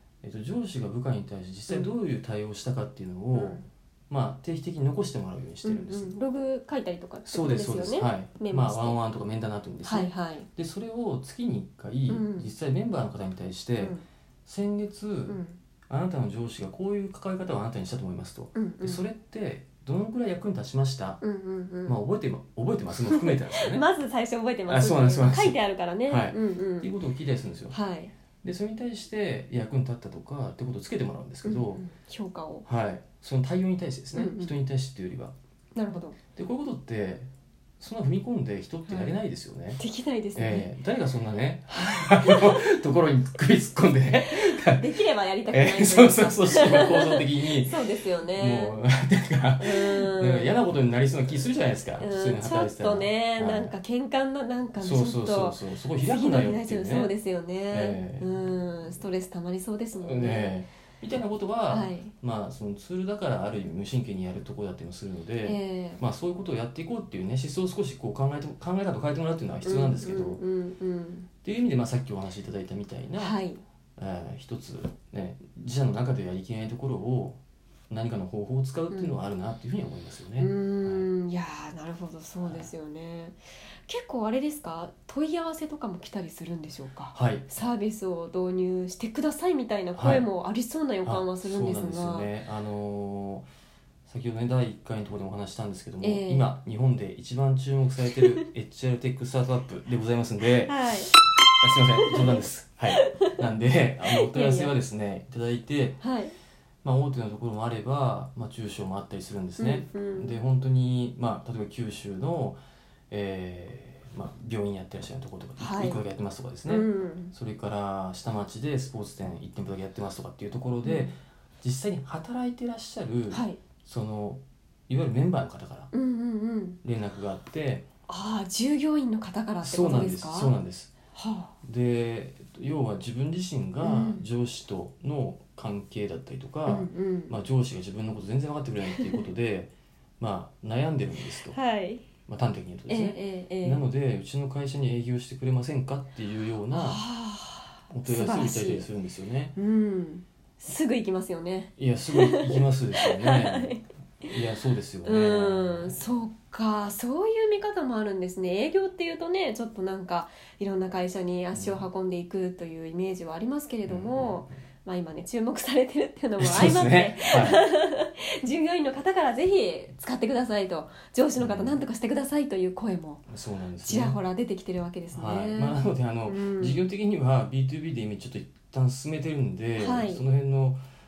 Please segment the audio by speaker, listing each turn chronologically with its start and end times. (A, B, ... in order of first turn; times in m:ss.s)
0:00.2-0:06.2 A
0:01.7-0:01.9 B
0:03.3-0:03.6 B
0:05.6-0:09.0 B
0:07.2-0:21.2 A
0:09.8-0:10.5 B
0:12.1-0:12.5 B
0:13.8-0:14.0 B
0:15.3-0:15.6 B
0:18.6-0:19.0 B
0:21.2-0:22.0 B
0:21.9-0:23.9 A
0:23.1-0:26.9 B
0:24.7-0:27.8 A
0:27.7-0:28.1 B
0:28.4-0:31.8 A
0:31.4-0:32.7 B
0:32.6-0:35.4 A
0:34.1-0:34.5 B
0:35.8-0:36.2 B
0:36.4-0:39.8 A
0:38.9-0:39.2 B
0:39.8-0:40.7 B
0:40.4-0:44.9 A
0:41.9-0:42.7 B
0:44.2-0:48.8 B
0:45.5-0:47.8 A
0:48.4-0:53.7 A
0:49.6-0:50.7 B
0:52.0-1:00.6 B
0:54.8-0:57.1 A
0:57.7-0:58.3 A
1:00.0-1:10.4 A
1:01.7-1:02.1 B
1:05.4-1:06.0 B
1:09.6-1:11.3 B
1:11.4-1:13.4 A
1:13.2-1:13.6 B
1:14.0-1:21.1 A
1:18.9-1:19.2 B
1:20.4-1:32.3 B
1:27.1-1:27.5 A
1:30.0-1:30.3 A
1:31.0-1:33.5 A
1:34.1-1:46.0 A
1:36.0-1:36.6 B
1:40.7-1:41.1 B
1:42.1-1:42.4 B
1:42.9-1:43.4 B
1:44.0-1:44.7 B
1:46.0-1:46.4 B
1:46.8-2:05.9 A
1:49.6-1:50.4 B
1:55.6-1:56.0 B
1:56.7-1:57.3 B
2:00.8-2:01.2 B
2:03.3-2:03.6 B
2:05.9-2:06.8 B
2:06.8-2:07.9 A
2:08.1-2:10.5 B
2:09.6-2:10.9 A
2:11.1-2:11.5 B
2:11.6-2:21.6 A
2:13.8-2:14.2 B
2:16.7-2:17.3 B
2:18.8-2:19.2 B
2:21.4-2:22.0 B
2:22.3-2:27.0 A
2:22.9-2:23.8 B
2:26.7-2:28.9 B
2:27.9-2:29.6 A
2:29.6-2:34.3 B
2:31.8-2:36.0 A
2:35.0-2:53.3 B
2:41.5-2:41.8 A
2:43.9-2:44.5 A
2:46.4-2:47.6 A
2:51.4-2:51.8 A
2:53.3-2:54.2 A
2:53.8-2:56.8 B
2:55.1-3:00.8 A
2:59.8-3:00.2 B